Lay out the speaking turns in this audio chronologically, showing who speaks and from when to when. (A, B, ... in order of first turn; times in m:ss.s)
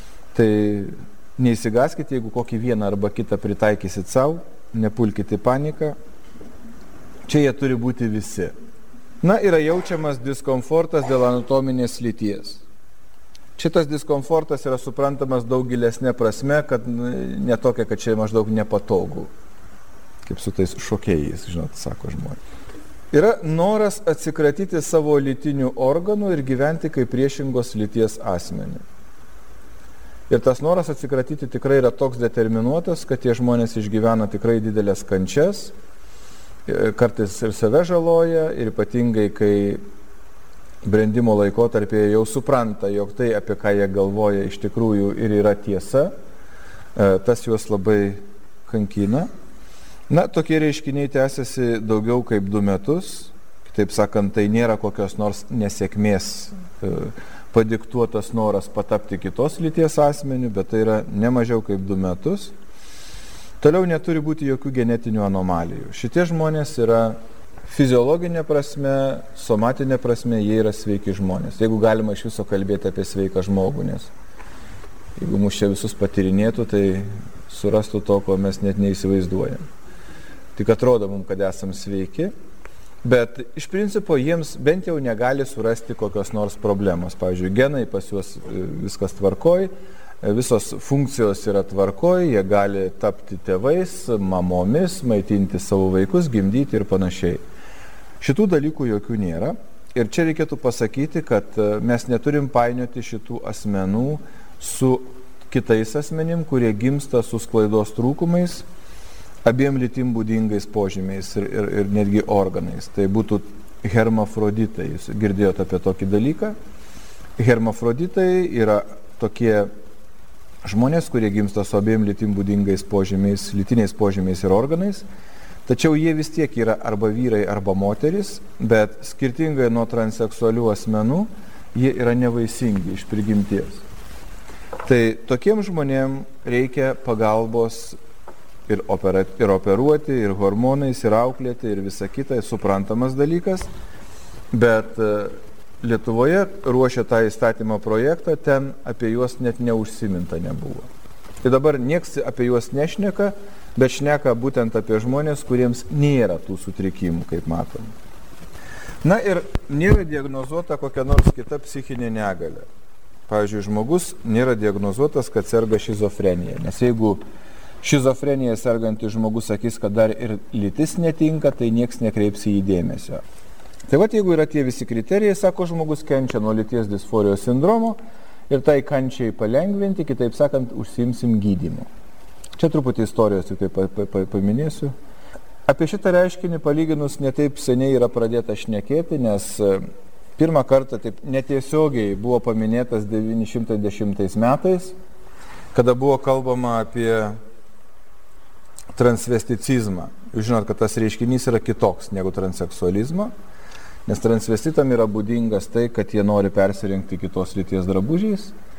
0:00.3-0:06.0 A
0:07.3-0:08.5 A
0:09.2-0:12.6 A
0:13.6-0:19.3 A
0:20.2-0:22.4 A
0:23.1-0:28.8 A
0:30.3-0:35.7 A
0:36.7-0:39.8 A
0:40.8-0:46.1 A
0:47.0-0:49.3 A
0:50.1-1:02.5 A
1:03.6-1:14.1 A
1:15.2-1:19.6 A
1:20.6-1:22.3 A
1:23.0-1:29.7 A
1:30.2-1:37.4 A
1:38.2-1:48.6 A
1:49.4-1:56.6 A
1:57.4-1:59.7 A
2:00.6-2:05.0 A
2:05.7-2:13.8 A
2:14.8-2:18.0 A
2:18.7-2:23.7 A
2:24.5-2:30.9 A
2:31.4-2:37.9 A
2:39.0-2:42.6 A
2:43.3-2:47.2 A
2:47.8-2:53.2 A
2:53.9-3:01.9 A
3:02.6-3:05.0 A
3:05.7-3:09.8 A
3:10.4-3:15.0 A
3:15.7-3:17.4 A
3:19.0-3:23.3 A
3:24.1-3:28.5 A